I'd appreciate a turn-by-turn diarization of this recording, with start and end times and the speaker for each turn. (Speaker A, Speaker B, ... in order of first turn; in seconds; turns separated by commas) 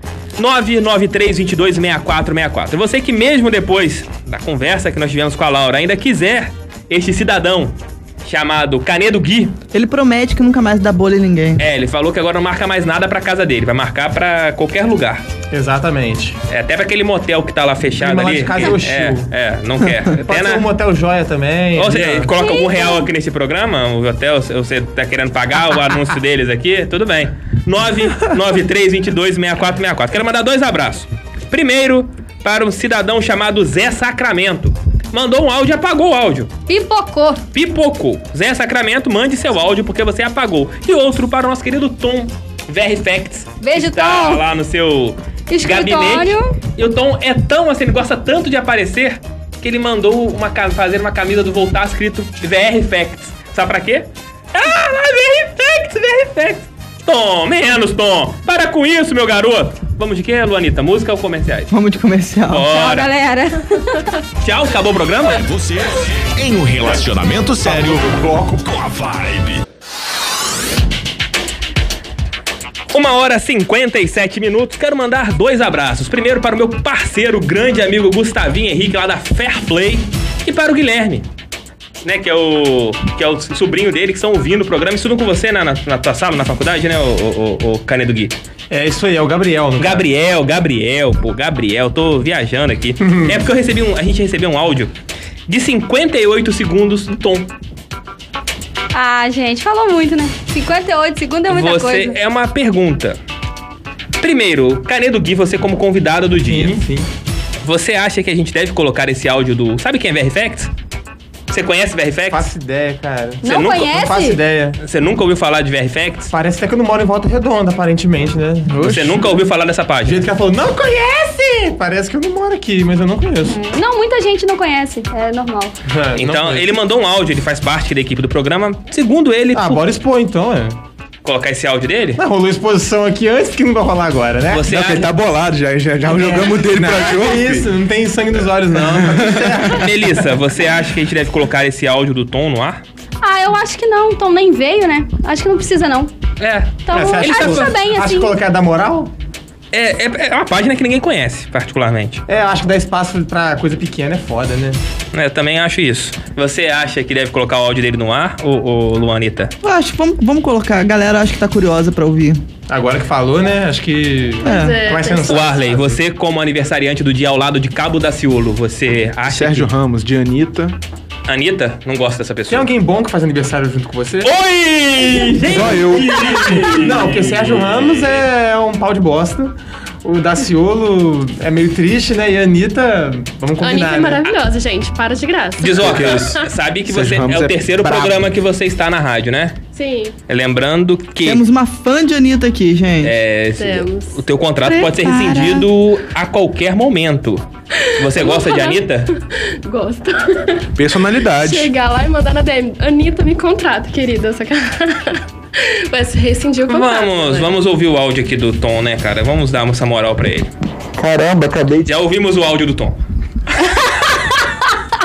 Speaker A: 0.4-9.6, Speaker B: 9.7-11.6, Speaker A: 11.6-15.2, Speaker C: 15.5-16.4, Speaker A: 16.5-20.7, Speaker C: 18.0-19.3, Speaker C: 20.2-22.3, Speaker A: 21.8-36.5, Speaker D: 22.3-23.0, Speaker D: 36.7-37.4, Speaker A: 37.5-61.7, Speaker D: 43.6-44.5, Speaker D: 45.5-46.5, Speaker B: 61.7-62.7, Speaker A: 62.5-63.1, Speaker D: 62.6-64.1, Speaker A: 64.4-65.4, Speaker E: 65.4-69.6, Speaker A: 72.9-81.3, Speaker A: 82.0-88.3, Speaker C: 88.7-90.0, Speaker A: 89.8-94.9, Speaker C: 93.0-93.4, Speaker A: 95.5-97.5, Speaker D: 98.9-102.2, Speaker A: 101.5-103.2, Speaker A: 104.2-106.8, Speaker C: 106.5-107.1, Speaker A: 107.6-110.7, Speaker A: 111.5-112.5, Speaker C: 112.3-114.8, Speaker D: 113.4-114.4, Speaker A: 113.5-113.9, Speaker A: 114.8-116.3, Speaker C: 116.3-119.2, Speaker A: 118.8-120.3, Speaker C: 120.0-123.6, Speaker D: 123.5-125.8, Speaker C: 125.9-126.7, Speaker A: 126.2-129.9, Speaker C: 129.5-130.8, Speaker A: 131.2-132.2, Speaker C: 132.2-134.7, Speaker A: 134.5-135.1, Speaker F: 134.7-137.7, Speaker C: 136.1-139.9, Speaker F: 138.8-139.8, Speaker A: 139.7-142.8, Speaker D: 143.2-146.1, Speaker A: 146.4-147.8, Speaker D: 146.9-148.4, Speaker C: 146.9-149.1, Speaker A: 149.7-152.2, Speaker C: 152.3-154.8, Speaker A: 155.1-159.5, Speaker B: 159.6-162.4, Speaker C: 162.7-166.0, Speaker B: 164.4-164.9, Speaker G: 164.4-165.7, Speaker A: 165.3-169.7, Speaker F: 169.3-170.8, Speaker A: 171.3-172.7, Speaker C: 172.5-174.3, Speaker A: 174.2-178.2, Speaker F: 175.4-176.8, Speaker C: 176.6-184.3, Speaker G: 183.6-186.3, Speaker A: 185.6-189.6, Speaker F: 185.8-188.3, Speaker G: 189.7-190.2, Speaker A: 190.3-191.4, Speaker B: 191.2-193.1, Speaker A: 193.0-199.1, Speaker G: 193.6-194.2, Speaker B: 194.6-195.7, Speaker G: 198.1-200.7, Speaker F: 200.8-201.7, Speaker G: 201.3-207.5, Speaker A: 206.7-210.5, Speaker A: 211.8-213.0